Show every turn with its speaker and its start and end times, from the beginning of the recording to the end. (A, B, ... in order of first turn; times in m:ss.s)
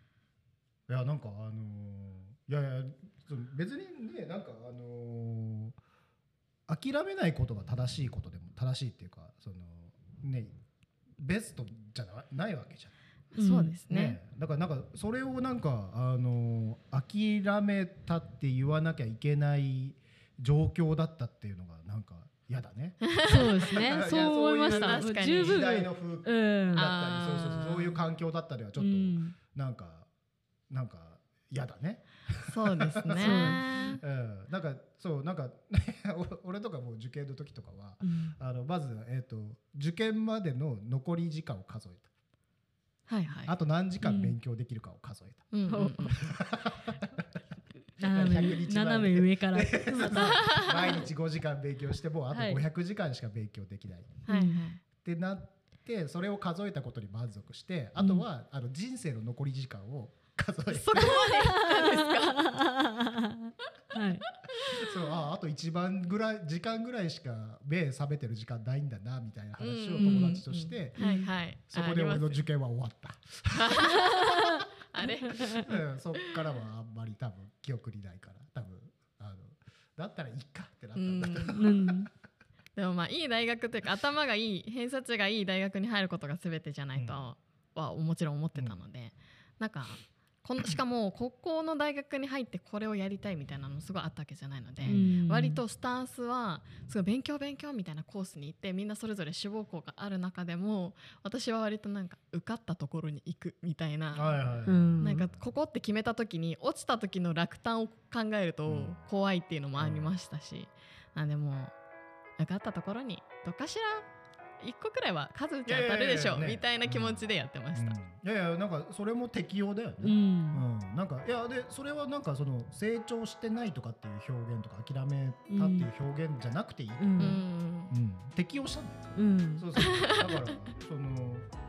0:00.9-0:05.8 A
0:06.7-0:10.5 A
0:11.2-0:13.0 A
0:13.3-0:14.2 B
0:13.4-0:13.8 C
0:13.9-0:30.1 A
0:23.0-0:24.1 B
0:23.2-0:26.9 C
0:24.6-0:25.7 B
0:26.7-0:28.0 B
0:28.8-0:29.4 C
0:30.7-0:42.1 A
0:32.5-0:34.0 B
0:33.2-0:34.0 C
0:38.0-0:38.4 C
0:43.1-0:43.5 B
0:43.4-0:47.0 A
0:44.0-0:44.4 C
0:45.5-0:46.2 B
0:45.7-0:46.2 C
0:48.0-0:51.1 C
0:48.0-0:54.2 A
0:52.3-0:52.6 C
0:54.2-0:54.8 B
0:54.3-0:54.6 C
0:55.0-1:01.3 A
0:58.0-0:58.2 C
1:00.7-1:02.5 B
1:01.2-1:04.2 C
1:04.6-1:11.0 A
1:09.6-1:12.5 B
1:10.0-1:10.3 C
1:11.0-1:11.3 C
1:11.7-1:14.3 A
1:13.5-1:16.3 B
1:15.5-1:22.0 A
1:21.0-1:21.7 B
1:21.5-1:22.1 C
1:22.7-1:51.7 B
1:27.0-1:27.3 A
1:28.5-1:28.8 A
1:34.8-1:35.1 A
1:34.8-1:35.6 C
1:44.1-1:45.4 A
1:44.7-1:45.3 C
1:48.6-1:49.0 A
1:49.8-1:50.1 A
1:52.4-1:54.0 B
1:54.6-1:58.0 B
1:55.6-2:11.5 A
2:00.0-2:00.6 C
2:05.5-2:05.9 C
2:07.0-2:07.4 C
2:07.2-2:07.9 B
2:09.1-2:09.7 C
2:09.8-2:10.6 B